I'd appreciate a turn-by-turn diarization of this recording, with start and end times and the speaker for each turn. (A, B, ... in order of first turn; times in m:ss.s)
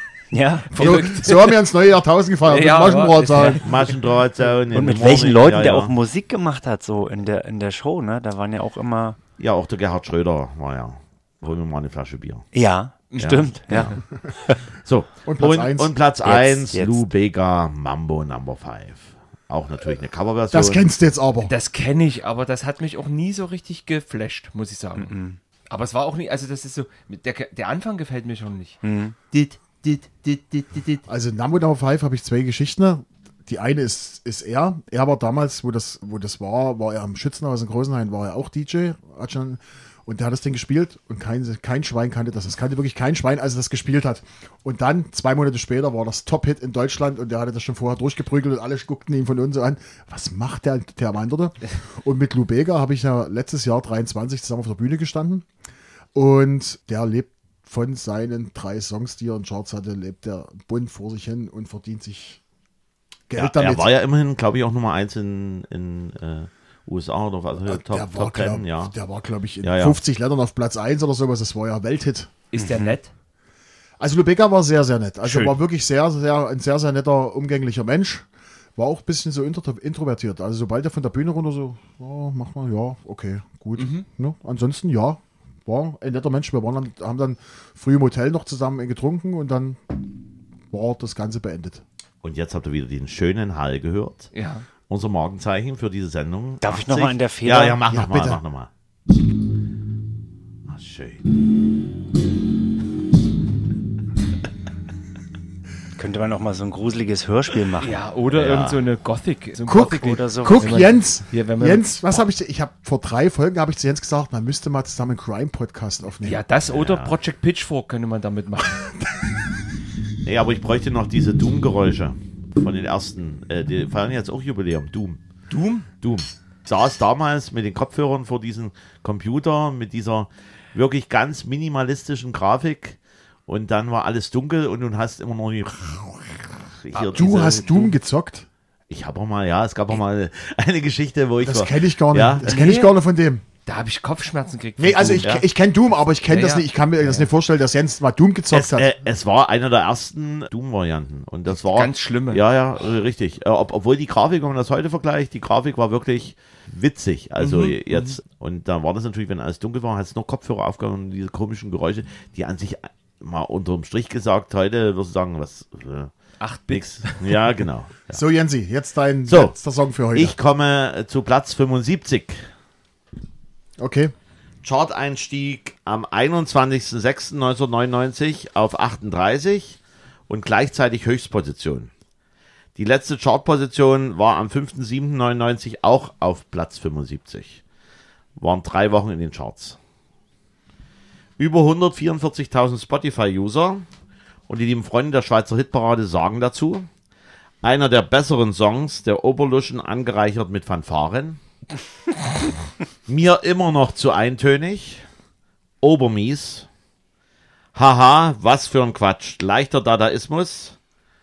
0:00.3-0:00.9 A
0:00.7-0:03.6 B
0:00.7-0:01.6 C
0:02.4-0:03.9 C
0:03.6-0:05.9 D
0:04.7-0:09.2 A
0:09.4-0:12.5 D
0:12.5-0:14.6 A
0:13.1-0:14.0 C
0:13.2-0:14.0 D
0:14.8-0:20.9 D
0:15.2-0:15.9 B
0:16.2-0:17.0 A
0:20.5-0:21.5 B
0:21.5-0:25.1 C
0:25.0-0:25.4 A
0:25.7-0:28.8 C
0:28.8-0:29.2 A
0:29.3-0:31.0 C
0:31.1-0:55.4 B
0:56.1-1:02.4 B
1:03.3-1:03.9 B
1:03.3-1:08.9 D
1:07.6-1:12.3 B
1:09.6-1:10.0 D
1:12.5-1:13.1 C
1:14.0-1:30.0 B
1:23.8-1:24.0 C
1:30.7-1:31.8 B
1:32.2-1:34.3 D
1:34.3-1:34.6 C
1:34.9-1:38.7 D
1:36.6-1:37.8 A
1:37.9-1:38.4 B
1:40.7-1:41.2 D
1:46.0-1:48.0 A
1:47.8-1:52.2 C
1:48.3-1:48.8 D
1:49.7-1:56.4 B
1:49.8-1:50.7 A
1:56.2-1:58.9 C
1:56.7-1:57.1 D
2:00.2-2:05.2 D
2:05.5-2:05.9 C
2:06.0-2:17.8 D
2:16.9-2:17.9 C
2:17.1-2:18.5 B
2:18.9-2:22.6 D
2:21.4-2:23.4 B
2:22.4-2:23.0 C
2:23.6-2:25.4 C
2:24.8-2:28.9 B
2:26.3-2:27.3 C
2:28.5-2:46.1 D
2:31.5-2:32.4 C
2:37.4-2:38.2 C
2:46.4-2:47.5 C
2:46.7-2:48.2 D
2:48.1-2:50.4 B
2:49.3-2:49.5 D
2:50.1-2:52.4 D
2:53.8-2:54.1 B
2:54.6-3:01.9 D
3:02.8-3:07.6 D
3:08.4-3:09.8 D
3:11.4-3:13.8 D
3:14.5-3:16.9 D
3:17.6-3:21.4 D
3:23.1-3:25.0 D
3:25.8-3:26.7 D
3:27.7-3:30.8 D